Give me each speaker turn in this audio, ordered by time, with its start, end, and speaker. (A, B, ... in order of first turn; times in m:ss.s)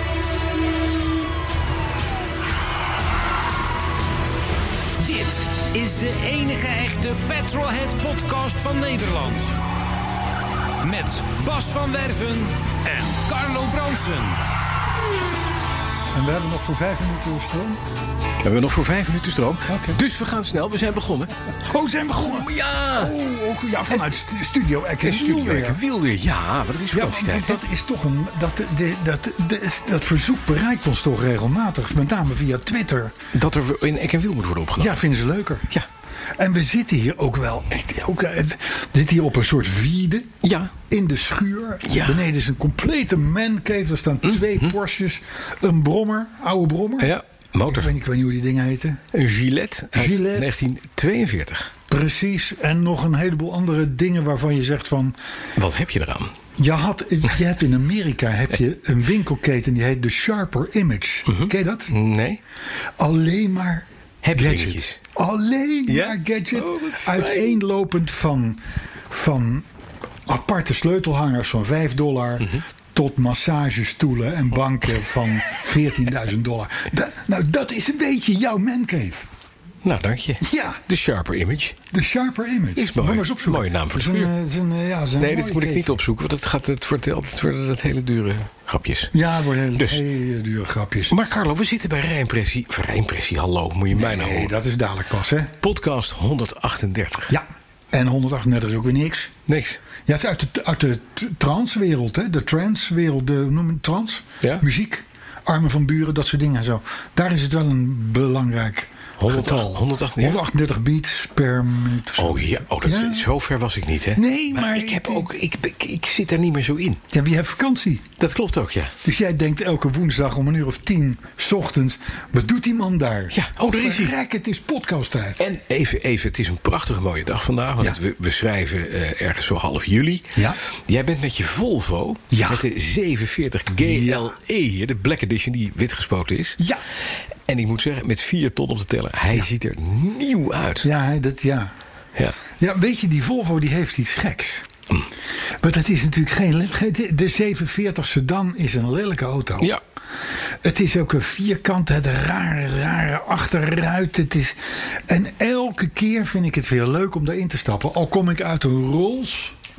0:05.0-0:09.6 A
0:10.8-0:14.4 A
0:16.1-0:17.8 B
0:18.4-0:21.3 C
0:19.7-0:20.0 B
0:21.6-0:25.8 B
0:22.1-0:23.2 C
0:25.0-0:27.6 C
0:26.9-0:33.2 B
0:33.3-0:35.0 C
0:34.8-0:35.7 B
0:36.4-0:40.3 B
0:40.4-0:40.7 C
0:40.9-0:47.2 B
0:41.8-0:42.3 C
0:44.2-0:44.7 C
0:47.0-0:47.9 C
0:47.7-0:49.0 B
0:49.1-0:51.8 C
0:49.9-0:50.5 B
0:51.9-0:55.2 B
0:55.6-0:56.3 C
0:56.6-1:01.9 B
1:01.3-1:02.4 C
1:03.0-1:09.7 B
1:04.2-1:05.0 C
1:05.9-1:07.6 C
1:10.3-1:19.3 B
1:19.8-1:21.8 C
1:20.4-1:20.8 B
1:21.9-1:26.0 B
1:22.8-1:24.3 C
1:25.2-1:29.2 C
1:29.1-1:31.2 B
1:29.8-1:30.0 C
1:31.1-1:34.5 C
1:33.9-1:35.5 B
1:35.6-1:37.3 C
1:37.3-1:39.3 B
1:39.5-1:39.8 C
1:40.0-1:53.3 B
1:49.2-1:50.4 C
1:52.2-1:57.0 C
1:54.2-1:55.3 B
1:57.1-1:58.1 B
1:58.2-1:59.0 C
1:59.0-2:05.4 B
2:03.3-2:04.1 C
2:05.4-2:16.6 C
2:12.3-2:12.6 B
2:13.8-2:14.4 B
2:17.5-2:20.9 C
2:20.8-2:21.7 B
2:22.6-2:24.7 B
2:25.6-2:29.7 B
2:30.6-2:39.5 B